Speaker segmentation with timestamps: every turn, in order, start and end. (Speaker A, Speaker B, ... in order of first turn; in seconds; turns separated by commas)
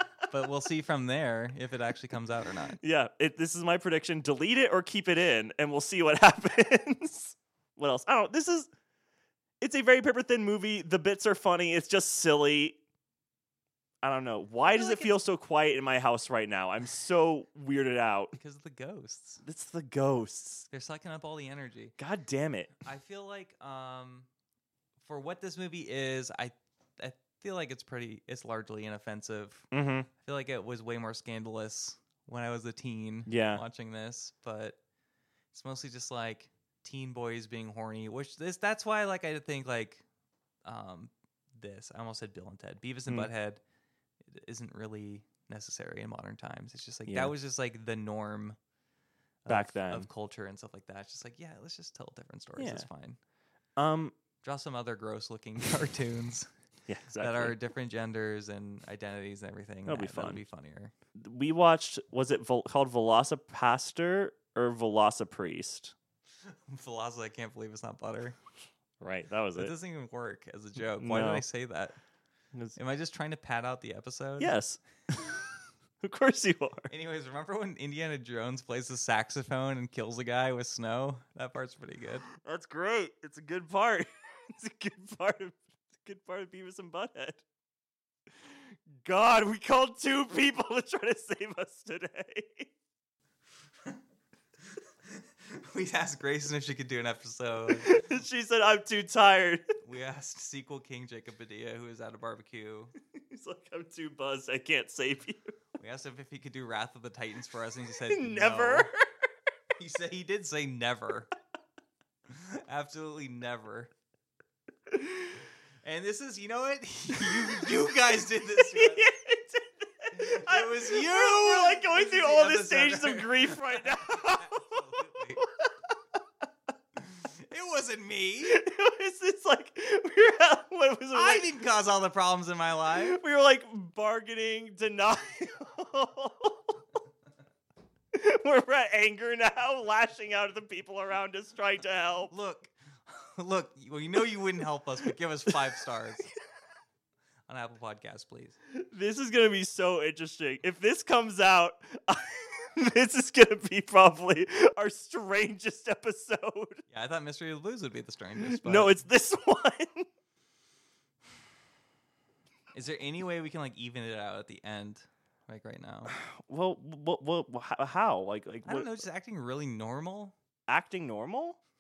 Speaker A: 0.3-2.8, Speaker B: 2.8-8.7, Speaker B: 9.6-12.8, Speaker B: 14.0-18.4, Speaker A: 14.7-15.2, Speaker A: 18.4-19.4, Speaker B: 19.4-20.7, Speaker A: 20.7-21.9, Speaker B: 22.0-22.8, Speaker A: 22.8-24.3, Speaker A: 25.0-29.7, Speaker B: 29.7-30.1, Speaker A: 30.2-34.8, Speaker B: 33.3-33.6, Speaker A: 35.5-40.0, Speaker A: 40.7-43.6, Speaker A: 44.3-48.6, Speaker B: 47.1-47.3, Speaker A: 49.4-53.2, Speaker B: 49.5-50.1, Speaker B: 52.6-52.9, Speaker B: 53.8-54.1, Speaker A: 54.4-56.5, Speaker B: 56.9-57.5, Speaker A: 57.2-60.9, Speaker B: 59.9-60.4, Speaker B: 61.2-66.0, Speaker A: 66.7-68.4, Speaker B: 69.0-69.7, Speaker A: 69.6-72.0, Speaker B: 70.9-71.5, Speaker A: 72.8-74.5, Speaker B: 74.4-75.4, Speaker B: 76.0-76.9, Speaker A: 76.9-82.3, Speaker B: 82.3-87.4, Speaker B: 88.5-92.7, Speaker A: 94.8-98.2, Speaker B: 97.7-99.7, Speaker A: 99.8-102.9, Speaker B: 103.2-105.5, Speaker A: 105.8-108.9, Speaker B: 108.1-109.1, Speaker A: 109.8-111.3, Speaker A: 112.3-113.9, Speaker B: 114.9-115.3, Speaker A: 115.8-119.1, Speaker B: 117.2-117.7, Speaker B: 118.6-124.9, Speaker A: 120.1-125.4, Speaker B: 125.4-125.9, Speaker A: 127.0-128.6, Speaker B: 128.4-131.5, Speaker A: 131.1-133.2, Speaker B: 132.9-136.8, Speaker B: 138.1-142.3, Speaker A: 142.3-146.3, Speaker A: 147.5-148.6, Speaker B: 148.7-156.8, Speaker A: 156.9-159.0, Speaker B: 158.4-160.1, Speaker A: 162.7-166.1, Speaker B: 166.1-169.0, Speaker A: 168.7-170.3, Speaker B: 170.7-171.6